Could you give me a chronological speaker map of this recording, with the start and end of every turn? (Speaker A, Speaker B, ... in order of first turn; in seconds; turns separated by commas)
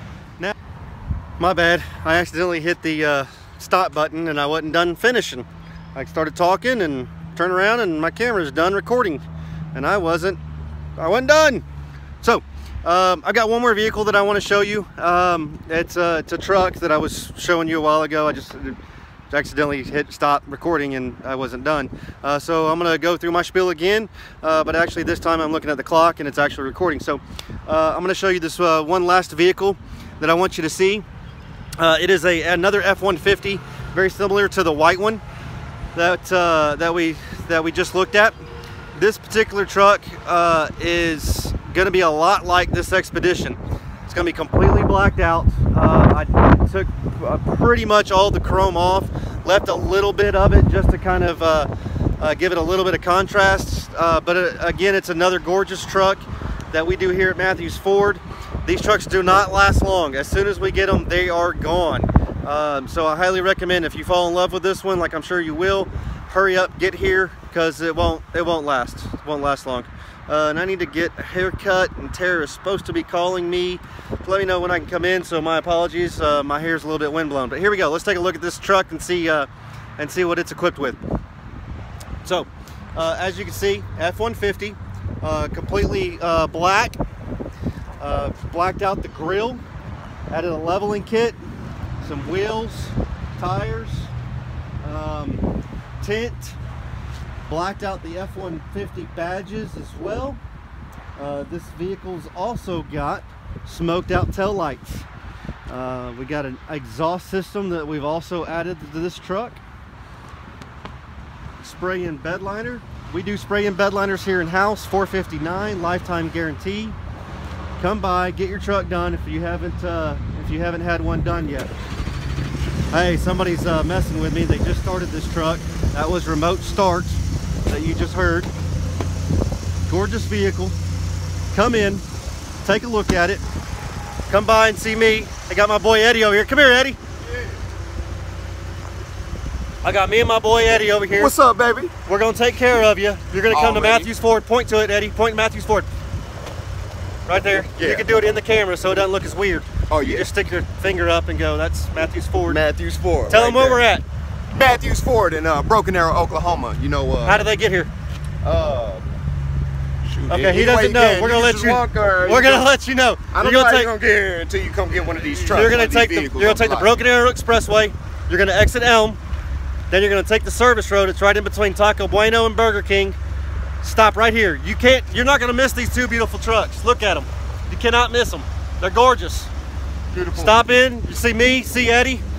Speaker A: 1.4-9.2, Speaker A: 9.7-10.4, Speaker A: 11.0-11.6, Speaker A: 12.2-18.8, Speaker A: 19.3-31.0, Speaker A: 31.8-35.2, Speaker A: 35.9-38.3, Speaker A: 38.9-81.0, Speaker A: 82.2-87.0, Speaker A: 88.0-89.6, Speaker A: 90.3-91.4, Speaker A: 92.0-94.1, Speaker A: 94.8-95.5, Speaker A: 96.0-96.6, Speaker A: 97.5-100.4, Speaker A: 101.2-105.1, Speaker A: 105.7-109.6, Speaker A: 111.6-117.0, Speaker A: 117.8-121.7, Speaker A: 122.9-128.5, Speaker A: 129.9-130.8, Speaker A: 131.5-132.1, Speaker A: 132.6-133.4, Speaker A: 134.3-137.0, Speaker A: 139.8-141.3, Speaker B: 141.1-141.9, Speaker A: 142.1-145.9, Speaker B: 143.5-144.1, Speaker A: 147.3-152.6, Speaker B: 147.8-148.0, Speaker B: 149.9-150.3, Speaker B: 152.5-153.8, Speaker A: 153.3-154.0, Speaker B: 154.5-157.4, Speaker A: 157.2-157.9, Speaker B: 158.4-159.1, Speaker B: 160.1-162.7, Speaker A: 160.3-163.9, Speaker B: 163.3-166.9, Speaker A: 165.5-169.2, Speaker A: 169.9-173.2, Speaker A: 173.8-179.5, Speaker B: 180.1-180.6, Speaker A: 180.3-182.2